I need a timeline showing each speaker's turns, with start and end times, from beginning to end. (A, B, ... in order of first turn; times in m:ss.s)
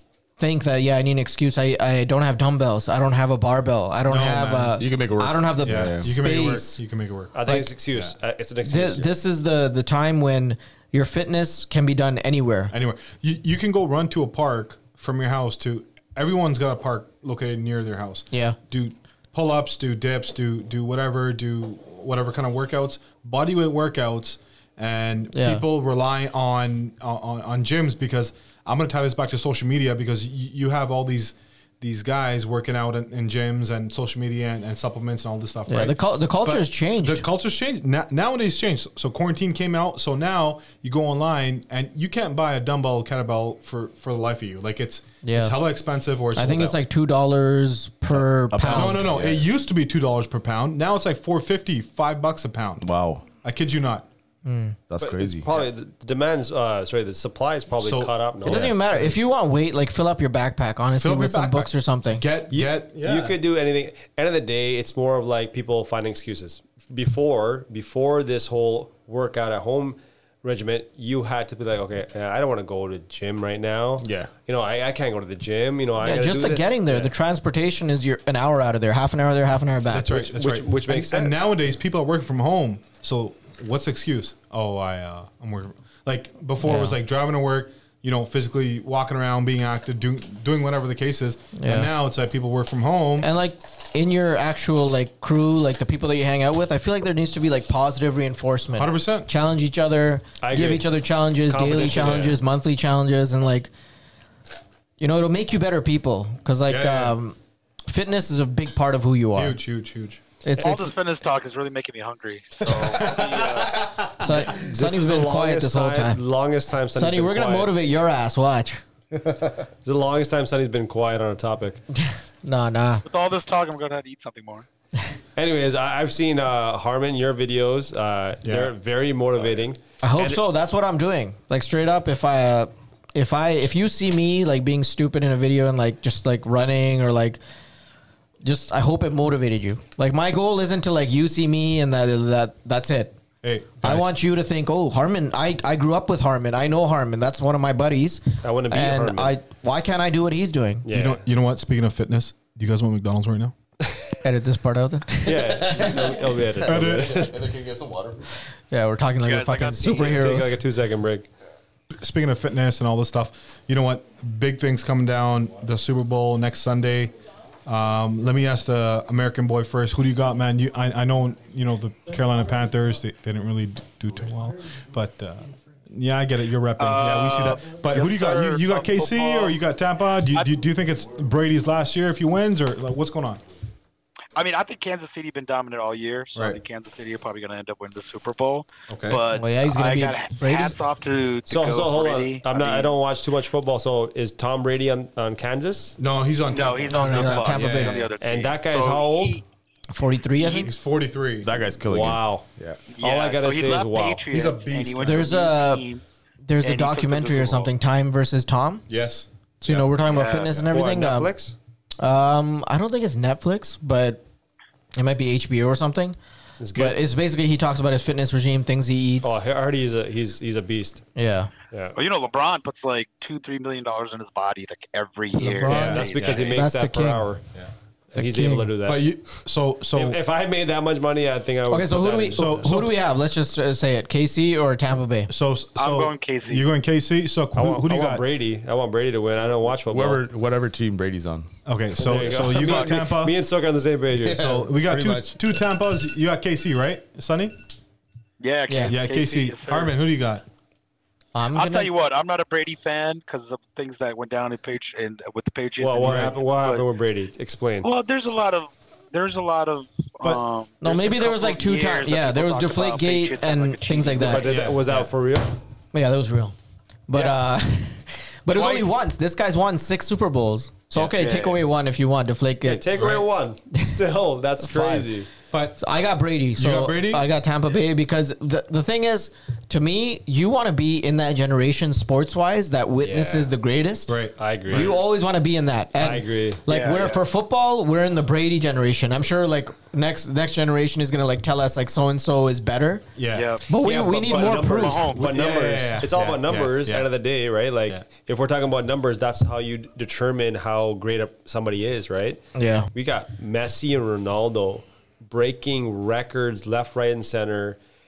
0:00.4-0:06.8 A
0:04.1-0:04.8 B
0:04.8-0:06.1 C
0:05.6-0:07.4 B
0:07.3-0:09.1 D
0:07.5-0:07.7 A
0:07.9-0:08.1 B
0:08.7-0:12.7 A
0:12.7-0:46.8 B
0:18.3-0:18.6 A
0:25.3-0:25.6 A
0:35.7-0:37.2 A
0:45.2-0:45.6 A
0:46.4-0:49.2 A
0:48.1-0:49.4 C
0:48.7-0:52.9 B
0:52.8-0:53.3 C
0:53.4-0:54.1 B
0:54.4-0:54.8 A
0:54.9-0:55.5 C
0:55.0-0:58.8 D
0:57.8-0:59.2 B
0:58.4-1:02.3 A
1:01.0-1:03.4 B
1:02.5-1:17.1 D
1:14.0-1:14.3 C
1:16.0-1:20.2 A
1:19.9-1:33.3 B
1:20.1-1:21.4 D
1:26.6-1:27.0 A
1:31.6-1:31.9 A
1:33.2-1:43.7 A
1:38.8-1:39.3 B
1:40.4-1:40.9 D
1:41.5-1:42.4 D
1:45.0-1:47.4 A
1:46.7-1:47.2 B
1:47.9-1:49.6 A
1:49.4-1:50.3 B
1:50.4-1:50.9 A
1:50.6-1:53.9 E
1:52.7-1:54.3 B
1:54.2-1:56.2 A
1:54.5-1:57.7 D
1:57.0-1:58.8 A
1:59.2-1:59.5 C
1:59.8-2:01.8 D
2:02.0-2:03.0 A
2:03.0-2:04.7 E
2:05.4-2:10.4 D
2:08.4-2:08.7 B
2:10.0-2:17.4 A
2:18.4-2:23.2 A
2:23.4-2:24.1 B
2:23.8-2:30.9 A
2:28.4-2:29.4 D
2:30.8-2:31.2 D
2:30.9-2:33.5 B
2:34.2-2:36.0 A
2:35.2-2:37.4 D
2:36.5-2:38.4 C
2:36.6-2:37.2 B
2:38.7-2:40.6 A
2:39.2-2:40.3 E
2:39.9-2:41.3 D
2:42.0-2:47.1 B
2:47.7-3:03.4 B
2:56.8-2:59.6 E
3:04.4-3:12.9 E
3:08.9-3:09.2 B
3:09.3-3:10.8 A
3:11.5-3:16.0 D
3:16.0-3:18.1 B
3:16.5-3:19.4 E
3:16.9-3:18.1 A
3:18.2-3:19.4 D
3:19.9-3:20.7 A
3:20.4-3:21.5 B
3:21.4-3:22.8 C
3:21.9-3:22.4 D
3:22.9-3:26.0 E
3:23.0-3:24.2 D
3:24.3-3:25.3 B
3:25.0-3:25.9 A
3:26.4-3:28.9 A
3:26.6-3:27.7 E
3:28.9-3:29.9 B
3:29.6-3:31.3 A
3:30.1-3:30.6 E
3:30.7-3:31.6 D
3:32.0-3:34.2 A
3:35.0-3:36.2 A
3:36.6-3:37.0 D
3:36.8-3:39.4 A
3:39.2-3:41.1 D
3:41.2-3:41.5 A
3:41.7-3:42.0 D
3:42.0-3:46.7 E
3:45.4-3:47.3 A
3:45.7-3:46.0 B
3:45.7-3:47.4 D
3:48.1-3:49.1 D
3:48.2-3:48.8 A
3:48.8-3:50.2 B
3:49.9-3:52.7 D
3:51.7-3:55.3 A
3:52.4-3:52.9 B
3:55.3-3:58.2 B
3:55.8-3:56.7 E
3:57.6-4:00.2 D
3:59.8-4:01.5 C
4:01.7-4:03.4 B
4:02.0-4:04.6 D
4:02.6-4:02.9 E
4:04.2-4:05.4 C
4:04.3-4:07.6 B
4:08.4-4:09.9 E
4:08.7-4:09.0 A
4:08.9-4:10.4 B
4:11.3-4:11.9 A
4:11.6-4:16.8 E
4:15.8-4:17.9 D
4:16.0-4:16.3 B
4:17.8-4:24.4 E
4:20.8-4:24.5 A
4:24.1-4:25.6 D
4:24.4-4:25.1 B
4:25.9-4:26.6 A
4:27.1-4:32.9 A
4:28.5-4:29.0 E
4:31.0-4:31.6 E
4:32.6-4:35.3 D
4:32.9-4:33.2 B
4:34.6-4:35.1 A
4:35.5-4:35.8 B
4:35.8-4:53.1 A
4:36.6-4:37.3 B
4:43.0-4:43.6 D
4:44.1-4:44.9 B
4:44.4-4:45.0 D
4:46.0-4:46.6 D
4:46.7-4:47.2 E
4:53.2-4:53.6 B
4:53.3-4:55.4 E
4:53.6-4:55.2 A
4:54.3-5:02.4 D
4:55.1-4:57.1 B
5:02.6-5:02.9 A
5:02.9-5:07.8 D